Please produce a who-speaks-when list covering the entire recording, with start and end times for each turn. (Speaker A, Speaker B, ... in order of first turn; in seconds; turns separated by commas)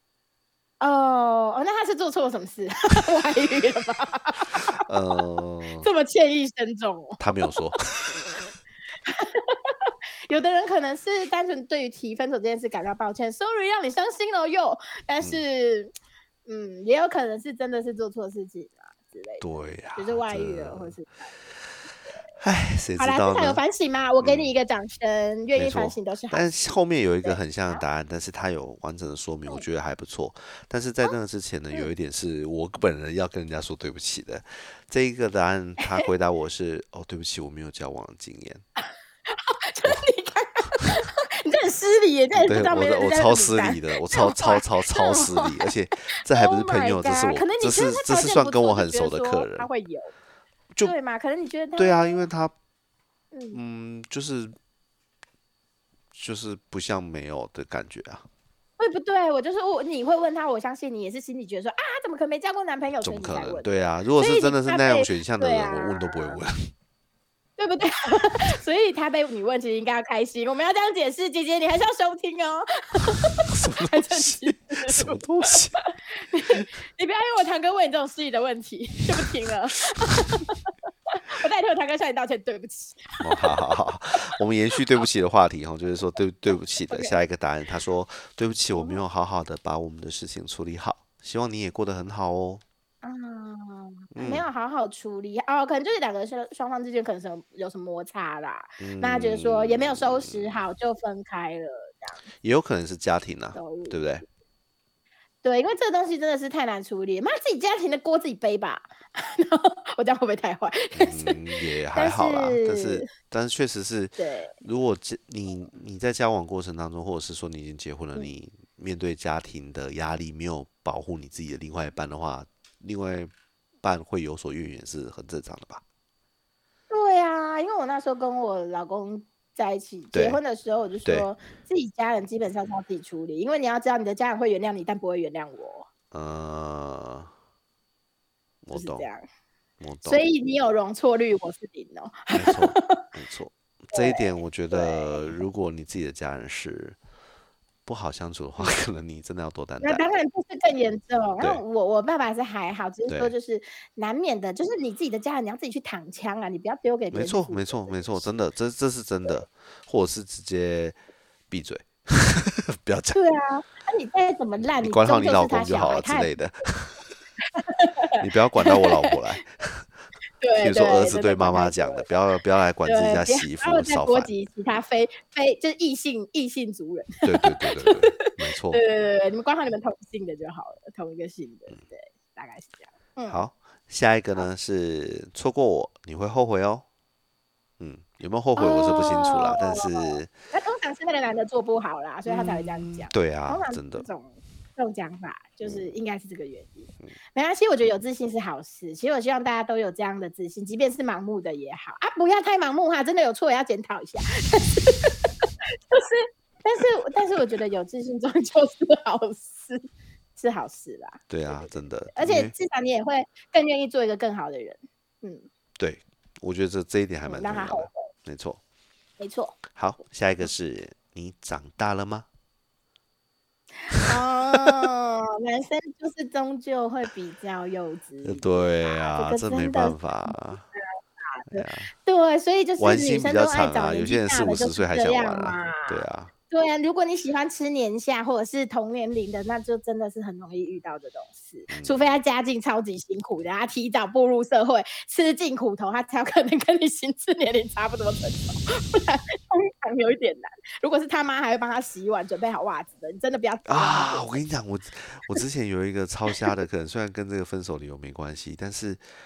Speaker A: 0.8-4.8, Speaker B: 4.7-5.9, Speaker A: 5.8-7.2, Speaker B: 7.2-8.2, Speaker A: 9.0-15.9, Speaker A: 16.5-21.3, Speaker B: 19.4-21.0, Speaker B: 22.4-23.6, Speaker A: 23.0-26.5, Speaker B: 24.2-24.5, Speaker B: 25.6-38.6, Speaker A: 27.2-27.8, Speaker A: 38.8-45.7, Speaker B: 42.4-49.7, Speaker A: 46.3-50.1, Speaker A: 50.8-52.2, Speaker B: 51.8-52.5, Speaker A: 53.3-53.6, Speaker B: 53.5-54.5, Speaker B: 56.1-58.2, Speaker A: 58.8-66.4, Speaker B: 63.0-66.7, Speaker A: 67.6-83.6, Speaker B: 73.4-75.8, Speaker B: 80.0-80.4, Speaker B: 83.2-92.6, Speaker A: 86.9-87.2, Speaker A: 88.8-89.0, Speaker A: 93.0-102.2, Speaker B: 94.1-94.5, Speaker B: 98.8-100.6, Speaker B: 102.4-104.2, Speaker A: 103.5-104.0, Speaker A: 105.4-111.4, Speaker B: 110.9-123.3, Speaker A: 111.9-113.1, Speaker A: 114.2-114.6, Speaker B: 123.8-125.8, Speaker A: 126.9-135.9, Speaker B: 130.1-130.4, Speaker B: 136.1-137.3, Speaker B: 138.6-139.1, Speaker A: 138.7-139.2, Speaker B: 139.8-140.2, Speaker A: 140.1-143.1, Speaker B: 142.3-147.0, Speaker A: 143.9-145.4, Speaker B: 147.9-150.1, Speaker A: 149.8-158.3, Speaker B: 153.1-153.3, Speaker B: 157.1-161.0, Speaker B: 161.5-163.2, Speaker A: 163.1-166.3, Speaker B: 164.8-167.1, Speaker A: 167.4-169.2, Speaker B: 168.2-169.9, Speaker A: 170.4-172.1, Speaker B: 170.6-174.3, Speaker A: 172.8-183.4, Speaker B: 177.2-178.8, Speaker B: 183.3-186.8, Speaker B: 187.8-190.3, Speaker A: 188.6-209.8, Speaker B: 192.3-194.1, Speaker B: 195.6-195.9, Speaker A: 210.4-215.5, Speaker B: 211.3-212.5, Speaker B: 215.8-218.6, Speaker A: 217.3-218.1, Speaker A: 219.2-219.6, Speaker B: 219.7-222.3, Speaker A: 223.8-254.4, Speaker B: 223.9-224.8, Speaker B: 228.2-230.7, Speaker B: 231.5-231.9, Speaker B: 232.8-236.3, Speaker B: 241.7-242.2, Speaker B: 253.7-259.0